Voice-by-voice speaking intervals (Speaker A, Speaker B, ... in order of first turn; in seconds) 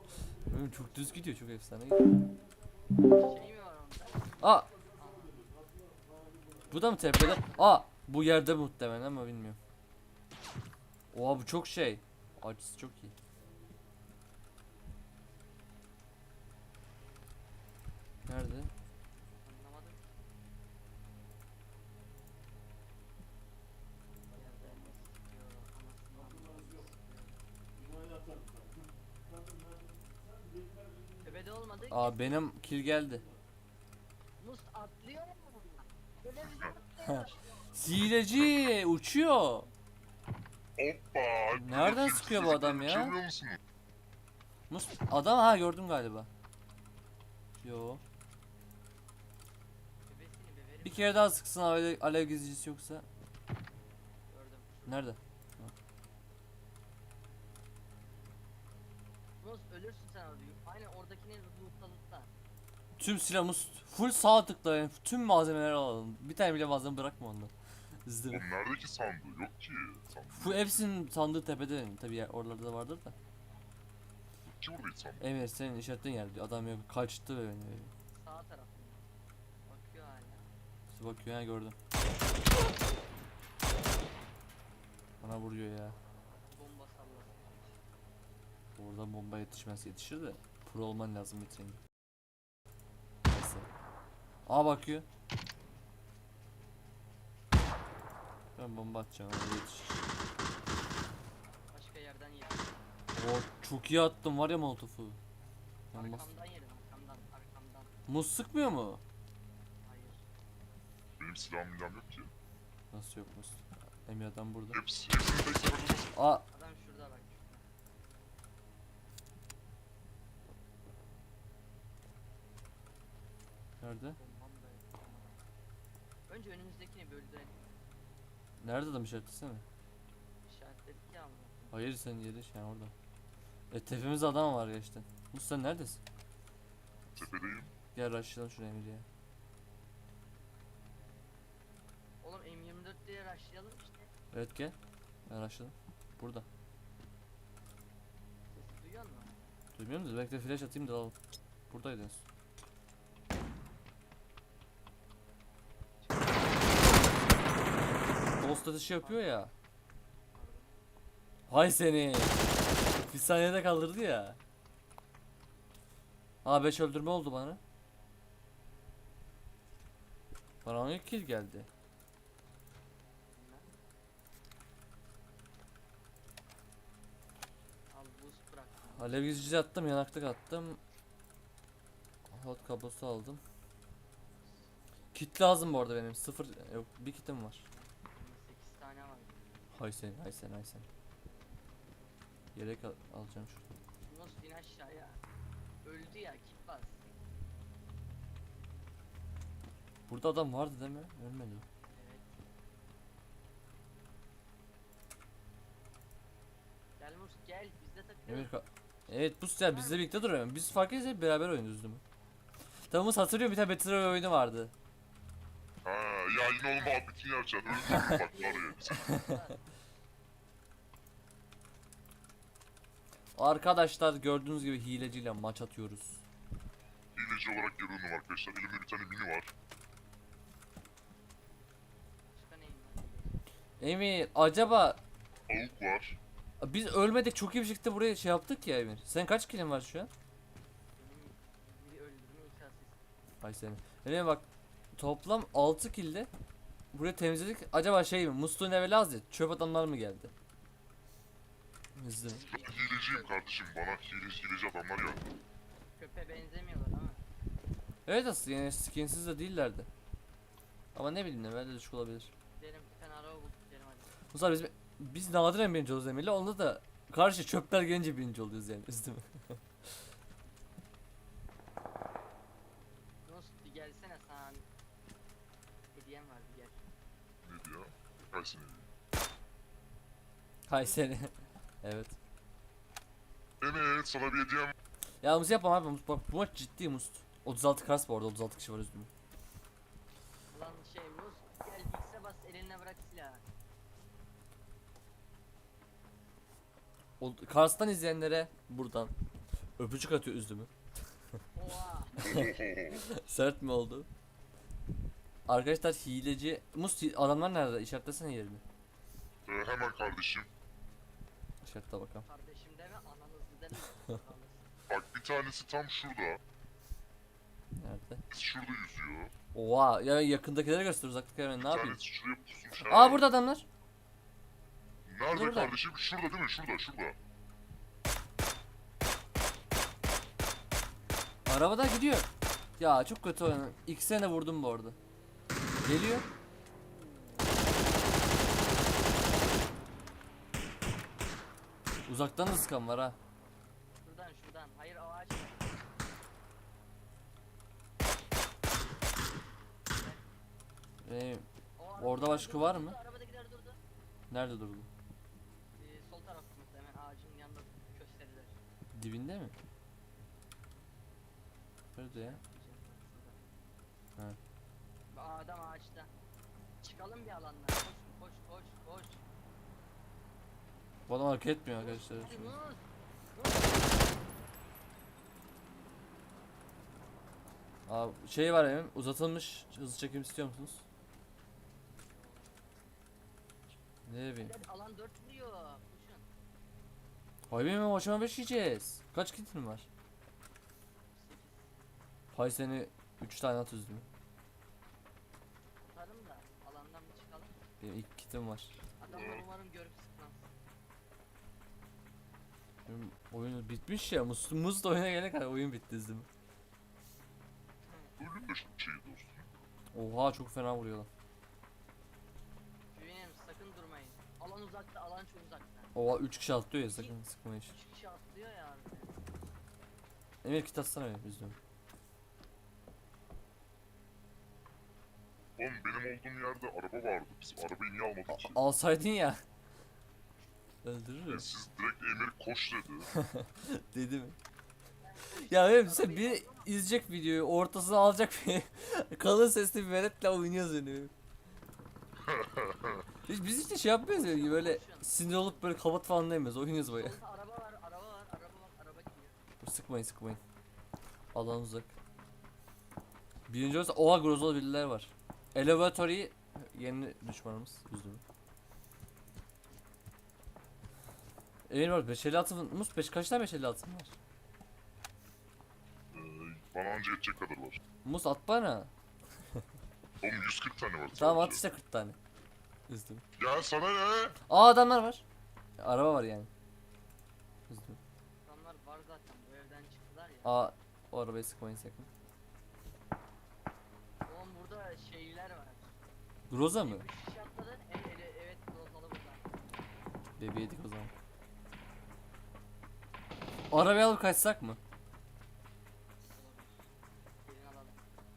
Speaker A: 0.4-2.1, 4.4-4.7, 6.7-9.6, 11.1-13.1, 18.3-18.7, 31.9-33.2, 37.0-39.7, 41.5-43.1, 44.7-46.3, 47.6-48.0, 50.8-53.0, 54.9-55.7, 63.0-67.5, 68.0-68.4, 70.3-73.1, 75.2-77.9, 80.9-81.8, 85.2-86.0, 88.8-91.8, 93.3-93.7, 94.5-95.0, 98.5-100.0, 103.2-105.2, 105.9-106.3, 108.1-109.0, 112.9-114.8, 116.1-116.4, 123.8-124.2, 128.6-129.6, 131.7-132.9, 133.7-136.0, 137.9-139.1, 144.3-144.7, 145.3-146.4, 149.8-151.1, 151.7-152.2, 158.3-159.5, 161.5-162.4, 163.1-164.4, 166.4-167.6, 170.6-171.7, 178.9-180.8, 182.3-183.4, 185.1-187.6, 189.7-190.8, 192.5-193.6, 200.1-201.6, 208.3-212.0, 212.9-214.7, 217.9-218.2, 218.9-219.4, 223.3-226.2, 233.8-235.0, 236.6-240.1, 243.4-244.4, 244.9-246.3, 246.9-250.3, 251.9-252.4, 258.1-259.9, 260.9-262.3, 264.3-269.6, 280.7-282.1, 285.2-289.1, 297.2-299.1, 299.8-300.7, 302.9-304.1, 305.5-308.6, 311.6-312.2, 317.8-318.2, 319.5-322.0, 322.9-323.6, 325.3-325.7, 331.4-335.0, 335.8-336.2, 342.1-343.2, 351.0-351.4, 352.0-352.9, 354.3-354.9, 358.9-359.5, 361.9-362.4, 371.1-372.6, 377.9-380.8, 384.1-384.5, 387.5-389.9, 392.3-394.0, 397.8-398.8, 402.9-406.3, 409.9-411.1, 415.9-417.8, 420.4-421.6, 428.3-429.4, 430.8-431.4, 433.1-434.4, 435.3-441.1, 443.2-447.1, 449.6-450.4, 451.3-451.9, 453.5-458.2, 461.7-464.1, 468.0-468.9, 471.1-472.2, 472.9-473.2, 474.5-475.2, 475.8-476.5, 477.7-478.0, 480.4-482.1, 486.5-487.1, 490.4-491.1, 493.7-494.8
Speaker B: 3.0-4.4, 4.9-5.5, 7.2-7.8, 19.4-20.0, 24.3-28.1, 31.2-32.5, 34.4-37.7, 50.1-51.2, 54.3-55.1, 59.4-62.3, 78.1-79.0, 79.7-80.5, 86.5-87.7, 101.7-102.9, 105.9-108.0, 109.8-110.2, 116.5-117.7, 124.2-125.4, 126.3-127.8, 130.4-131.8, 142.2-144.1, 148.5-149.5, 156.0-157.9, 159.0-159.4, 160.3-160.8, 173.3-173.7, 177.9-179.5, 187.7-189.5, 194.1-195.2, 195.8-197.0, 201.9-202.3, 207.0-208.5, 209.6-210.1, 218.0-219.6, 232.2-233.5, 240.9-243.0, 252.2-253.4, 255.9-257.2, 262.6-264.1, 273.2-274.6, 275.9-276.8, 290.5-293.4, 301.6-302.2, 312.3-314.7, 344.0-345.7, 349.9-350.3, 351.8-353.8, 355.8-358.6, 362.1-363.4, 365.1-366.1, 366.8-369.2, 371.8-374.2, 382.0-382.9, 384.4-386.3, 391.1-391.7, 395.8-397.6, 399.0-400.5, 407.8-408.1, 412.9-415.9, 417.7-419.2, 435.0-436.7, 444.1-445.8, 446.9-449.4, 478.4-480.6, 484.2-485.9, 486.8-489.5, 496.3-496.7, 497.4-498.0
Speaker C: 38.0-38.5, 40.8-43.6, 68.3-70.9, 74.4-75.3, 111.2-112.3, 114.7-116.1, 137.1-137.7, 215.8-219.1, 227.1-229.5, 235.5-236.2, 252.4-255.2, 277.4-278.9, 283.6-284.7, 302.2-303.1, 309.4-310.5, 314.9-316.4, 318.3-319.3, 321.6-323.3, 325.1-327.2, 399.1-399.5, 408.2-409.5, 425.6-428.6, 431.3-433.1, 442.2-443.1, 466.1-467.8, 470.2-471.6, 473.4-474.4